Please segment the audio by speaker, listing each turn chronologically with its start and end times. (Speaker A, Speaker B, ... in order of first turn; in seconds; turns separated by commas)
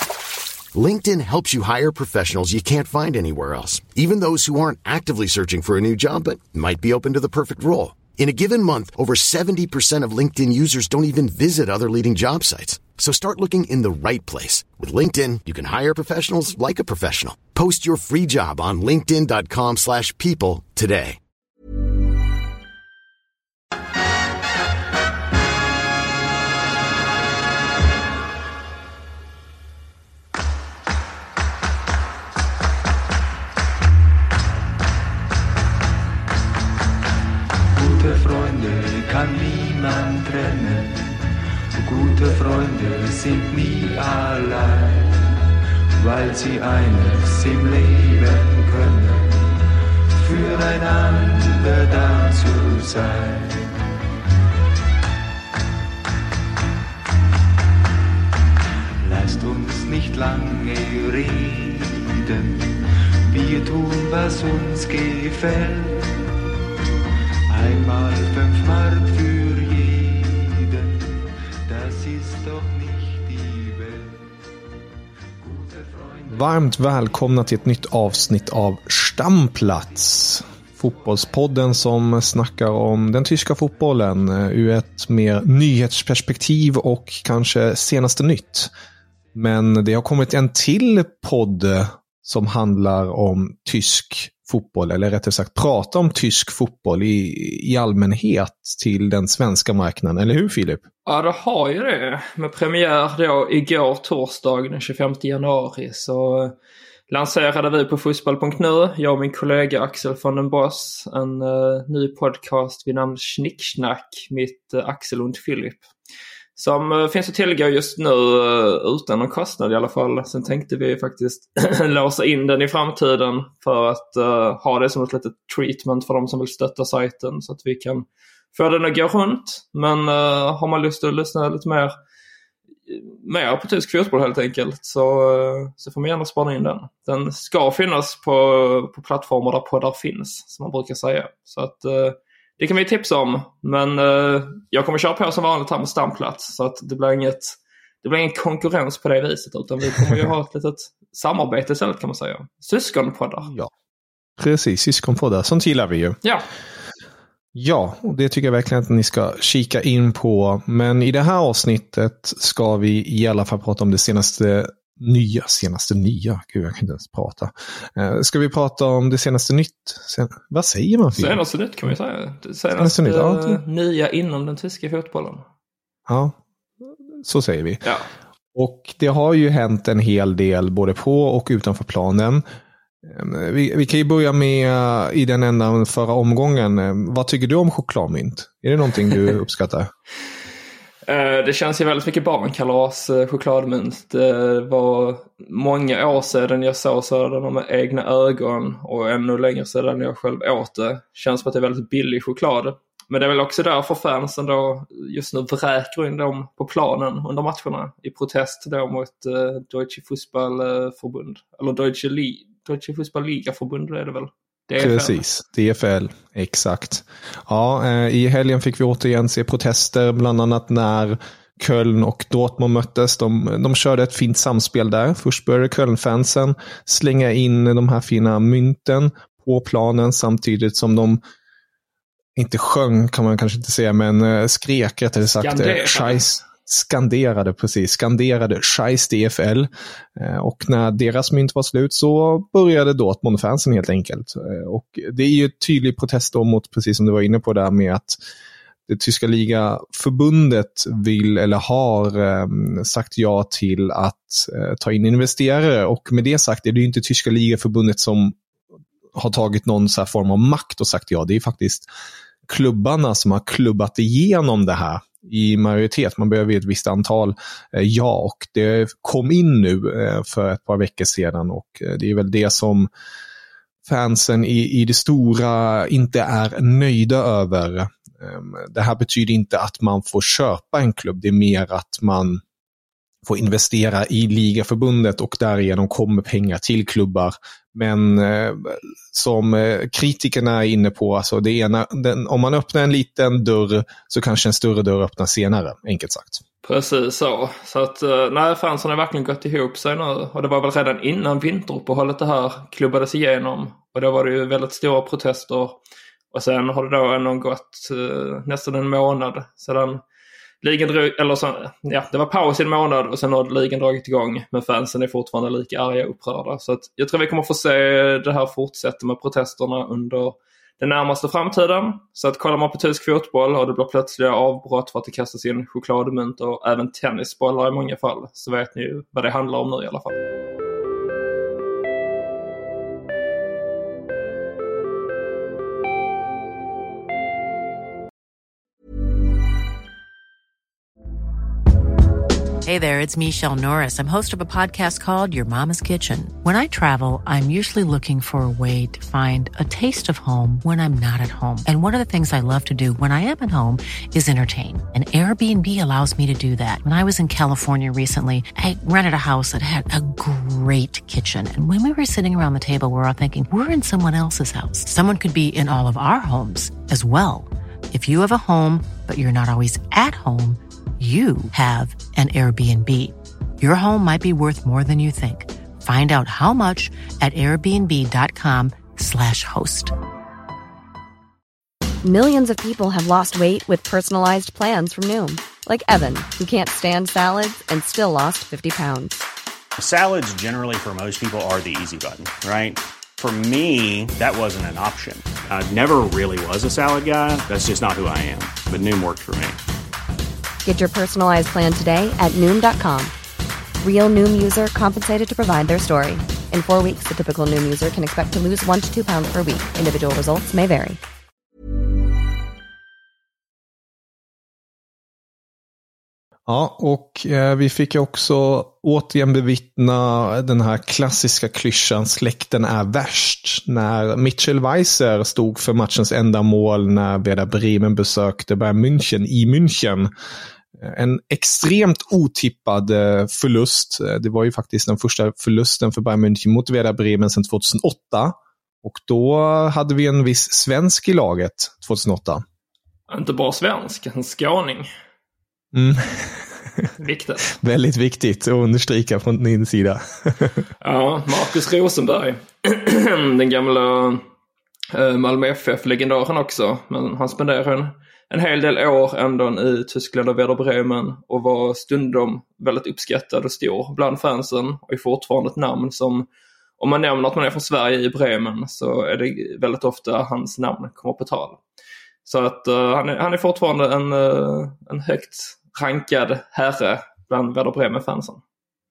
Speaker A: 0.7-21.2, Speaker B: 37.7-41.2, Speaker B: 41.8-45.3, Speaker B: 46.0-53.7, Speaker B: 59.0-66.3, Speaker B: 67.5-74.3, Speaker B: 75.4-76.4, Speaker C: 76.3-88.7, Speaker C: 89.3-100.8, Speaker D: 101.0-106.5, Speaker D: 107.1-115.8, Speaker D: 116.5-131.9, Speaker D: 132.9-153.5, Speaker C: 153.4-153.7, Speaker C: 154.4-156.2, Speaker C: 157.5-171.4, Speaker D: 171.1-175.4, Speaker C: 172.8-173.6, Speaker C: 176.1-177.8, Speaker C: 178.5-182.4, Speaker C: 183.0-189.9, Speaker D: 191.1-215.2, Speaker C: 214.8-231.2, Speaker C: 232.3-248.2, Speaker D: 235.4-236.2, Speaker C: 248.9-258.4, Speaker C: 259.1-261.9, Speaker C: 262.5-272.9, Speaker C: 273.9-282.4, Speaker C: 283.2-296.4, Speaker D: 296.6-305.8, Speaker D: 306.3-310.0, Speaker D: 310.6-330.2, Speaker E: 342.6-379.9, Speaker F: 382.0-389.2, Speaker G: 389.8-399.6, Speaker F: 400.6-403.1, Speaker F: 403.8-411.0, Speaker C: 416.5-430.1, Speaker C: 430.8-442.4, Speaker D: 443.1-444.9, Speaker C: 445.7-446.9, Speaker D: 447.0-447.5, Speaker C: 447.6-450.7, Speaker D: 450.8-454.2, Speaker D: 454.9-466.3, Speaker D: 466.8-471.6, Speaker D: 472.2-478.4